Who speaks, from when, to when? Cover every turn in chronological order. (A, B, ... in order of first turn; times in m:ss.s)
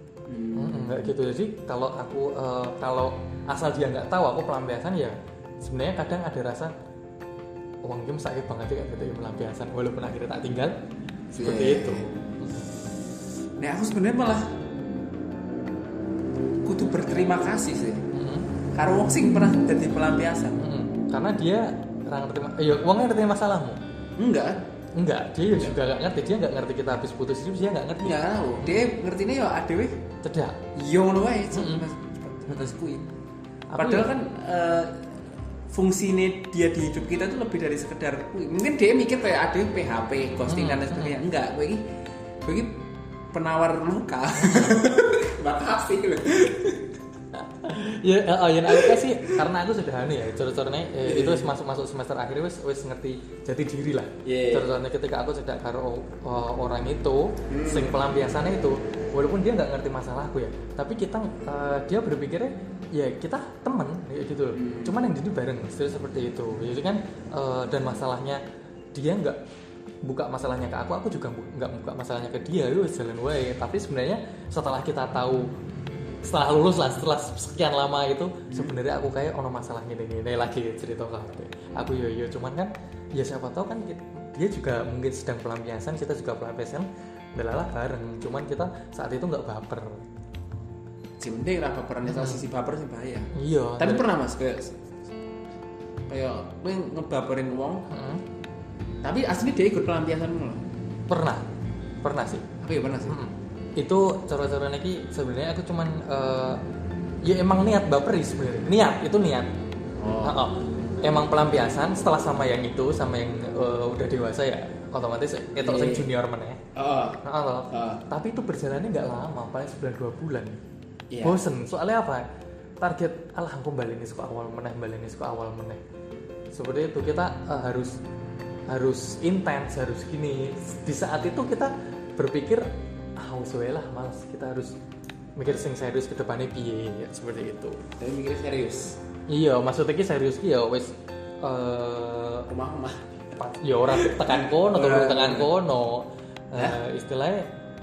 0:00.3-0:01.1 A
0:00.6-0:06.7 B
0:07.8-0:10.8 B
0:11.3-0:12.1 A
0:11.3-0:12.6 B
0:13.6-0:14.4 A
0:16.6-0:18.0 A
0:18.1-0:18.5 B
0:18.7-0:20.6 A
0:20.6-0:23.8 B
0:24.2-0:24.6 A
0:25.0-0:28.9 B
0:28.0-0:30.0 A
0:30.2-0:30.6 B
0:30.7-0:33.0 A
0:31.5-0:31.9 B
0:32.5-0:32.8 B
0:33.7-0:34.1 B
0:33.8-0:35.1 A
0:35.7-0:41.8 A
0:40.5-0:41.2 B
0:42.4-0:42.8 A
0:43.3-0:46.9 A
0:44.4-0:44.8 B
0:47.3-1:08.4 B
0:48.7-0:49.3 A
0:51.0-0:51.5 A
0:54.2-0:54.7 A
0:57.5-0:58.0 A
1:04.6-1:05.0 A
1:08.9-1:09.4 B
1:10.1-1:15.5 B
1:16.2-1:30.0 B
1:18.5-1:18.8 A
1:31.2-1:34.8 A
1:32.1-1:32.4 B
1:33.3-1:34.1 B
1:36.1-1:37.9 A
1:37.9-1:38.2 B
1:39.0-1:40.6 A
1:41.1-1:41.5 B
1:42.0-1:42.5 B
1:42.6-1:43.2 A
1:43.1-1:46.6 B
1:47.2-1:49.5 B
1:50.0-1:50.4 A
1:50.2-1:56.6 B
1:55.6-1:56.1 A
1:56.8-1:58.0 A
1:57.2-2:00.6 B
2:01.1-2:01.4 A
2:01.2-2:02.2 B
2:02.8-2:05.8 B
2:06.5-2:08.0 B
2:08.7-2:14.8 B
2:15.4-2:17.8 B
2:18.0-2:19.0 A
2:19.3-2:22.5 B
2:22.5-2:23.1 A
2:23.4-2:27.5 B
2:23.9-2:25.5 A
2:26.6-2:26.8 A